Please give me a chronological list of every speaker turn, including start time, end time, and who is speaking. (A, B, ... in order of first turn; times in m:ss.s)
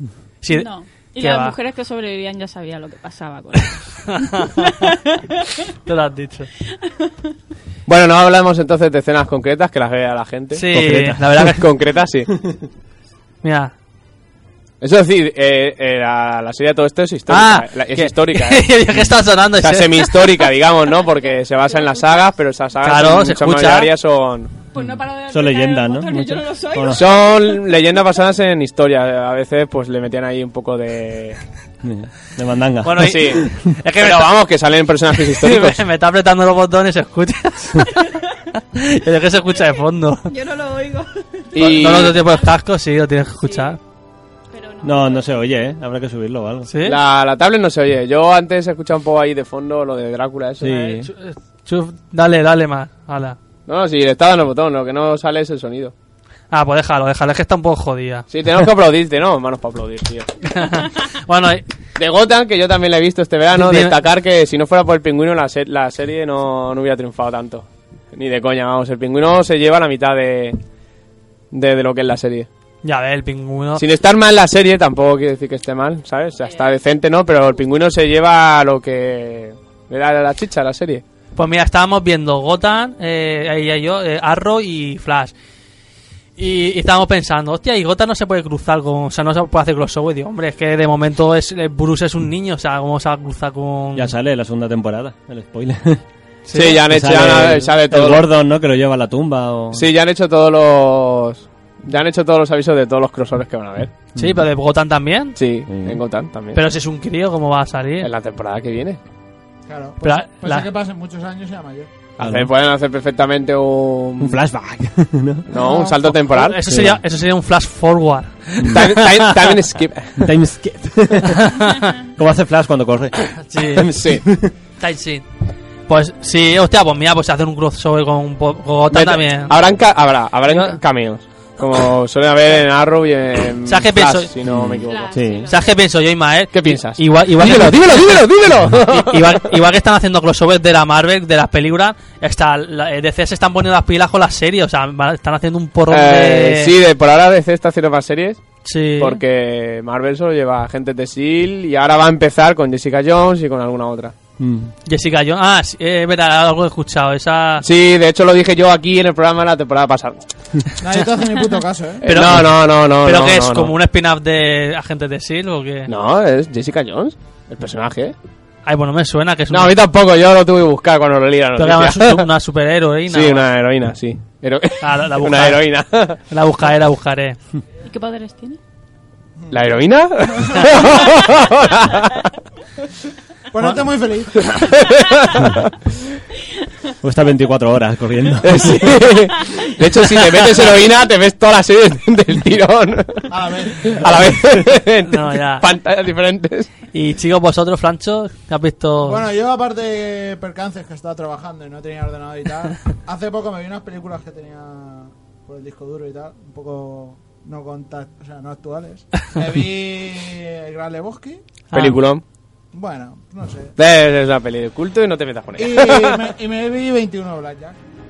0:00.4-0:00.7 A
0:00.5-0:05.6 B
0:01.2-0:01.6 A
0:04.2-0:04.6 A
0:05.8-0:06.5 A
0:06.7-0:07.3 B
0:07.9-0:10.8 C
0:10.5-0:11.6 A
0:10.7-0:11.6 D
0:11.4-0:12.3 C
0:13.4-0:13.7 A
0:14.8-0:18.7 C
0:17.3-0:20.3 A
0:19.6-0:24.5 C
0:20.9-0:22.3 B
0:22.8-0:23.9 A
0:24.7-0:27.7 B
0:24.8-0:27.0 D
0:26.9-0:31.4 C
0:31.8-0:33.6 D
0:32.8-0:34.3 A
0:33.0-0:33.5 C
0:34.0-0:35.8 C
0:35.3-0:38.0 A
0:37.9-0:38.4 B
0:38.7-0:40.3 A
0:39.5-0:42.6 B
0:41.5-0:42.2 C
0:41.6-0:43.8 A
0:43.4-0:43.8 B
0:44.5-0:45.4 B
0:44.8-0:46.7 D
0:46.7-0:47.0 A
0:46.8-0:50.7 C
0:50.6-0:51.1 D
0:50.6-0:53.4 A
0:53.7-0:55.9 C
0:56.5-0:58.3 A
0:58.3-1:00.3 C
1:00.5-1:01.6 A
1:02.0-1:10.6 C
1:03.5-1:03.9 A
1:11.5-1:12.5 C
1:12.8-1:13.8 A
1:13.8-1:21.0 C
1:16.4-1:16.7 B
1:21.4-1:25.3 A
1:26.4-1:34.1 A
1:33.9-1:36.0 D
1:36.5-1:36.8 A
1:36.5-1:38.2 C
1:36.8-1:39.9 D
1:39.7-1:43.9 C
1:44.2-1:44.4 D
1:44.2-1:45.4 A
1:45.4-1:46.6 C
1:45.7-1:46.0 D
1:46.5-1:48.1 A
1:48.0-1:49.0 C
1:49.7-1:51.9 E
1:50.0-1:50.7 A
1:52.2-1:54.4 C
1:52.2-1:52.5 D
1:54.2-1:55.5 D
1:55.5-1:56.6 C
1:55.6-1:56.0 E
1:56.0-1:59.5 A
1:56.6-1:57.0 D
1:58.6-1:58.9 D
1:58.7-2:00.3 C
2:00.2-2:04.5 D
2:01.3-2:01.9 A
2:03.4-2:03.9 A
2:03.8-2:04.2 C
2:04.8-2:05.2 A
2:05.9-2:09.5 A
2:08.9-2:15.2 C
2:10.5-2:10.8 A
2:13.6-2:14.3 A
2:14.4-2:15.5 D
2:14.8-2:15.8 B
2:15.5-2:18.0 A
2:16.5-2:19.5 C
2:18.9-2:26.7 A
2:25.9-2:28.4 C
2:28.6-2:29.2 A
2:29.0-2:34.1 C
2:34.4-2:34.7 D
2:34.8-2:37.6 A
2:37.6-2:40.2 C
2:40.8-2:42.0 E
2:42.0-2:43.7 C
2:42.0-2:45.9 A
2:45.9-2:48.1 C
2:48.6-2:49.8 A
2:49.5-2:52.3 C
2:51.6-2:53.4 A
2:53.1-2:56.2 C
2:54.8-2:55.6 A
2:56.3-2:57.4 A
2:57.8-2:58.6 B
2:59.5-3:02.2 C
3:00.3-3:00.9 E
3:03.5-3:04.7 E
3:04.4-3:05.7 C
3:07.0-3:09.0 D
3:08.4-3:16.7 C
3:13.3-3:14.1 E
3:15.1-3:15.6 A
3:16.9-3:19.2 A
3:19.0-3:31.4 E
3:31.7-3:32.0 A
3:31.7-3:32.2 C
3:32.7-3:33.7 E
3:33.8-3:36.3 C
3:35.6-3:37.8 E